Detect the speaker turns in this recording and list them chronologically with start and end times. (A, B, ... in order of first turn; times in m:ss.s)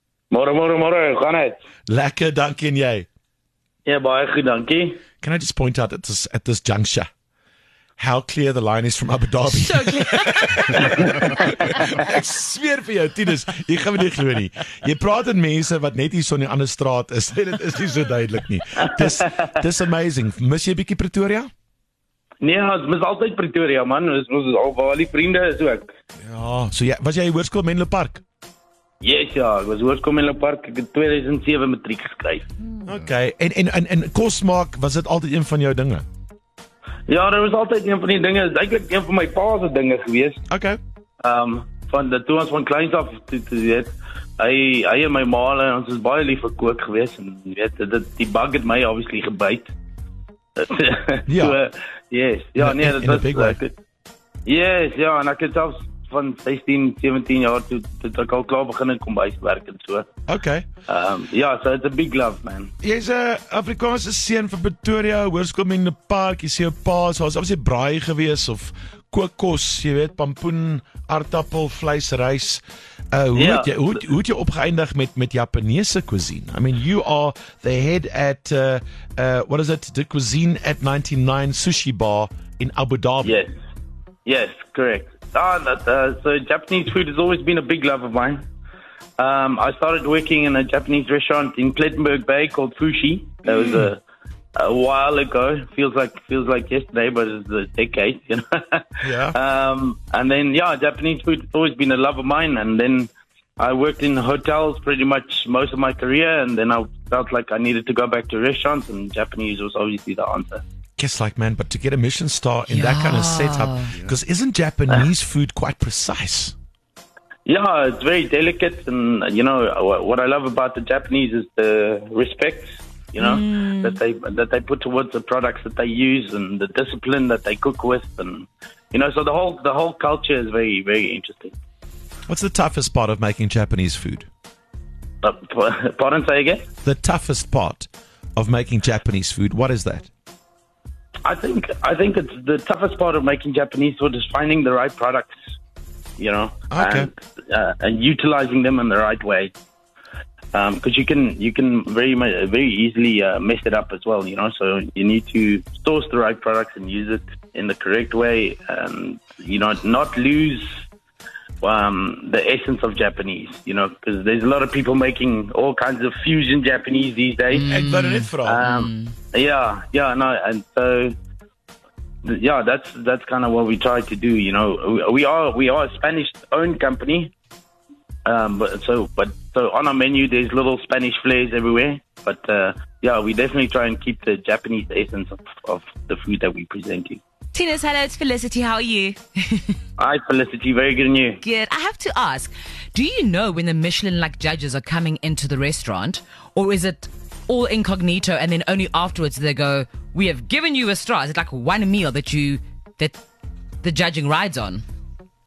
0:00.3-0:01.6 A
0:01.9-0:03.1 B
0:03.8-0:05.0 A
0:05.2-0:07.1 B
0:08.0-0:21.5 B
0:09.5-0:11.9 C
0:22.4-0:25.9 A
0:26.2-0:28.2 B
0:29.0-0:32.5 A
0:32.8-0:36.0 B
0:37.1-0:40.4 A
0:40.5-0:40.8 B
0:41.2-0:49.7 A
0:50.6-0:53.8 A
0:51.3-0:51.6 B
0:52.6-0:53.6 B
0:54.5-1:00.1 A
1:00.3-1:00.7 B
1:00.9-1:02.7 A
1:02.8-1:23.4 B
1:13.4-1:14.0 A
1:23.2-1:23.6 A
1:24.2-1:28.5 A
1:29.2-1:34.0 A
1:34.6-1:50.6 A
1:39.0-1:39.4 B
1:51.0-1:56.6 B
1:52.7-1:53.9 C
1:57.5-2:11.6 A
2:03.2-2:04.0 C
2:12.3-2:14.3 B
2:15.2-2:16.7 A
2:16.8-2:20.1 B
2:21.2-2:25.4 A
2:26.2-2:29.5 A
2:26.7-2:27.1 B
2:30.5-2:40.8 A
2:41.6-2:47.7 A
2:47.5-2:49.1 C
2:47.7-2:48.6 B
2:48.4-2:51.1 A
2:52.2-2:57.3 A
2:58.2-3:07.2 A
3:07.5-3:09.8 C
3:10.0-3:11.4 A
3:11.4-3:23.2 C
3:23.8-3:24.8 C